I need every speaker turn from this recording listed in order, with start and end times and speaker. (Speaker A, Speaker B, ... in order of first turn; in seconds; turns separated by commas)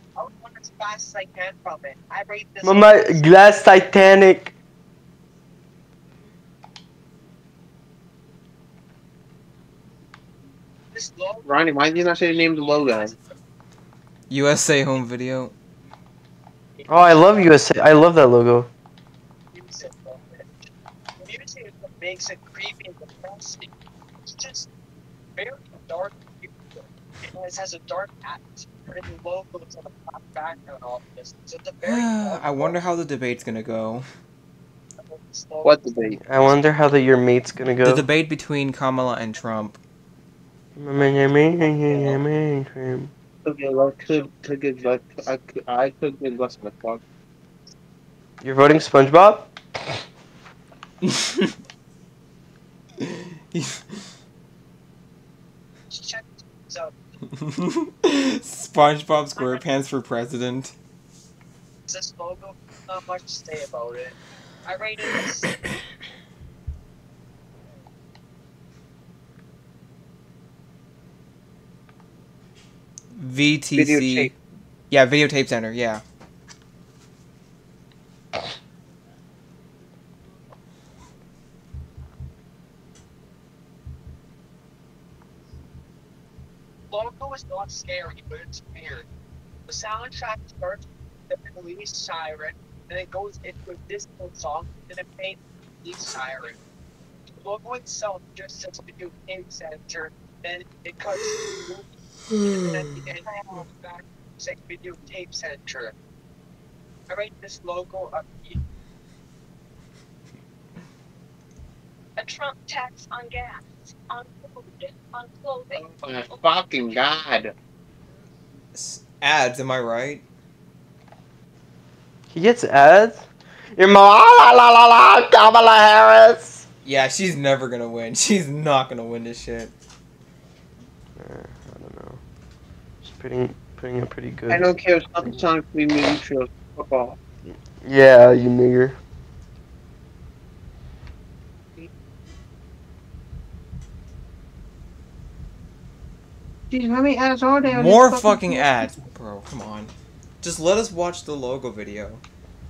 Speaker A: 0.1-3.2, Speaker B: 2.6-4.5, Speaker A: 10.9-13.2, Speaker C: 11.4-13.1, Speaker D: 14.3-15.5, Speaker A: 16.8-17.2, Speaker B: 16.9-18.7, Speaker A: 19.5-20.5, Speaker A: 21.2-23.7, Speaker A: 24.2-24.7, Speaker A: 25.4-32.8, Speaker D: 31.8-34.0, Speaker A: 35.0-36.1, Speaker C: 35.6-36.2, Speaker B: 36.2-38.0, Speaker D: 37.8-39.8, Speaker B: 40.8-43.1, Speaker C: 43.4-47.0, Speaker B: 48.4-49.5, Speaker D: 51.0-51.5, Speaker D: 53.0-53.8, Speaker A: 55.9-56.9, Speaker D: 57.4-60.7, Speaker A: 59.4-59.6, Speaker A: 61.9-65.5, Speaker D: 73.1-74.3, Speaker C: 73.7-74.3, Speaker D: 74.9-76.0, Speaker A: 86.9-89.1, Speaker A: 89.7-96.6, Speaker A: 97.3-105.9, Speaker D: 102.7-103.0, Speaker A: 107.1-108.6, Speaker E: 112.2-115.8, Speaker C: 115.7-117.5, Speaker D: 118.7-120.2, Speaker B: 122.3-126.6, Speaker D: 126.8-129.7, Speaker B: 131.2-132.2, Speaker B: 133.0-135.4, Speaker C: 134.5-137.2, Speaker B: 137.8-139.0, Speaker C: 146.7-148.7, Speaker D: 147.7-152.2